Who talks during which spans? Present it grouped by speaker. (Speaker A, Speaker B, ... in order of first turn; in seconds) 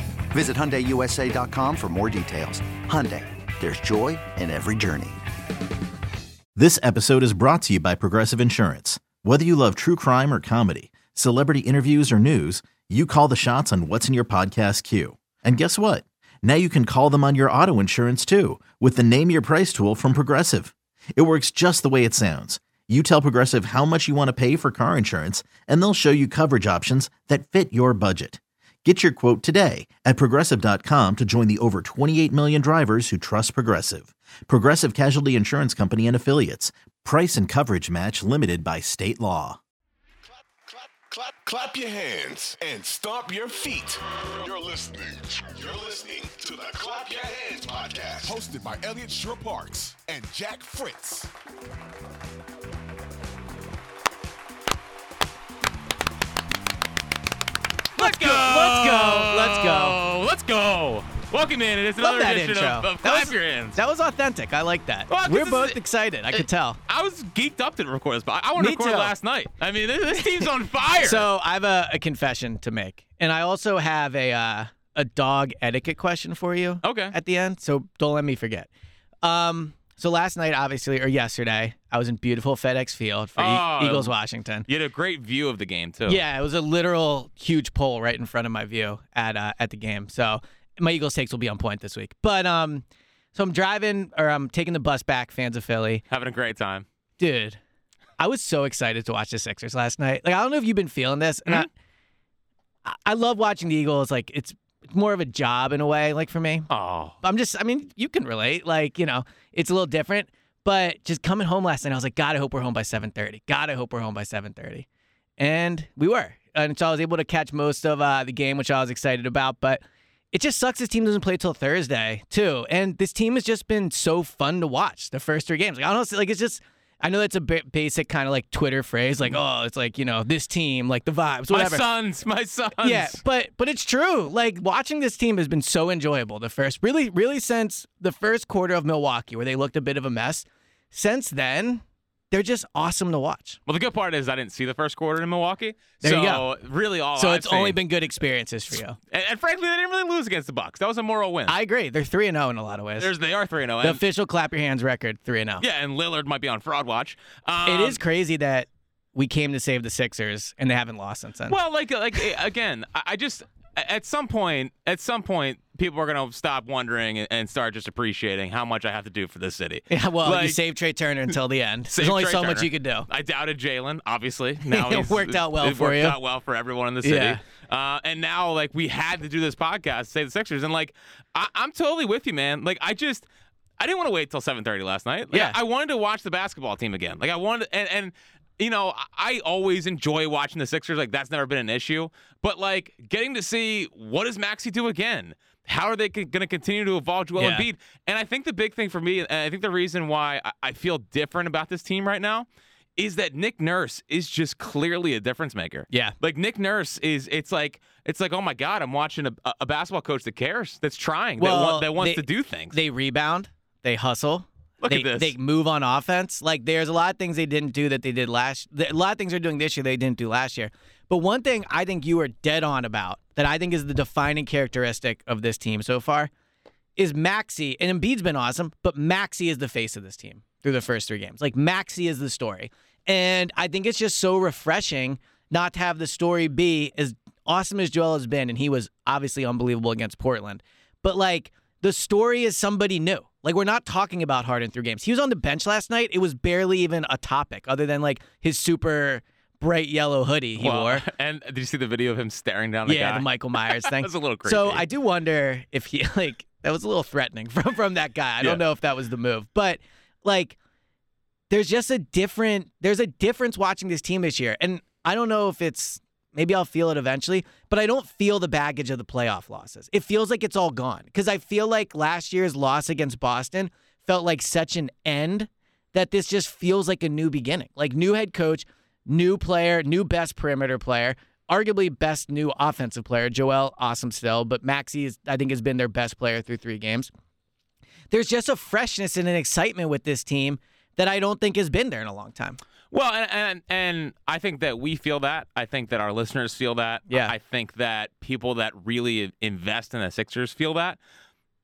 Speaker A: 0.3-5.2
Speaker B: 6.5-39.6
Speaker C: 40.6-51.3
Speaker D: 58.0-60.0, 62.0-66.8, 68.6-69.1, 71.0-78.7, 79.2-84.7, 86.1-92.8, 93.3-96.0, 97.2-97.6, 98.2-101.7, 102.8-106.7, 107.2-114.8, 115.4-119.8, 120.3-131.8, 132.8-143.6, 146.0-146.4, 147.2-149.0, 151.5-153.1, 153.8-155.6, 157.7-161.6, 169.9-173.1, 174.6-176.2, 177.0-177.4, 185.3-185.6, 197.4-197.7, 211.4-226.3, 227.0-251.1, 252.8-260.6, 261.5-287.1, 288.1-292.6, 297.1-297.3
Speaker E: 58.0-63.8, 65.1-65.8, 66.3-71.2, 76.8-77.1, 83.4-84.1, 84.7-86.2, 96.1-96.8, 106.7-107.2, 131.5-133.2, 143.7-147.8, 149.1-151.5, 153.0-154.0, 155.6-158.0, 161.5-170.6, 171.9-183.2, 183.8-202.4, 203.0-212.8, 214.8-215.3, 250.6-254.8, 292.9-301.0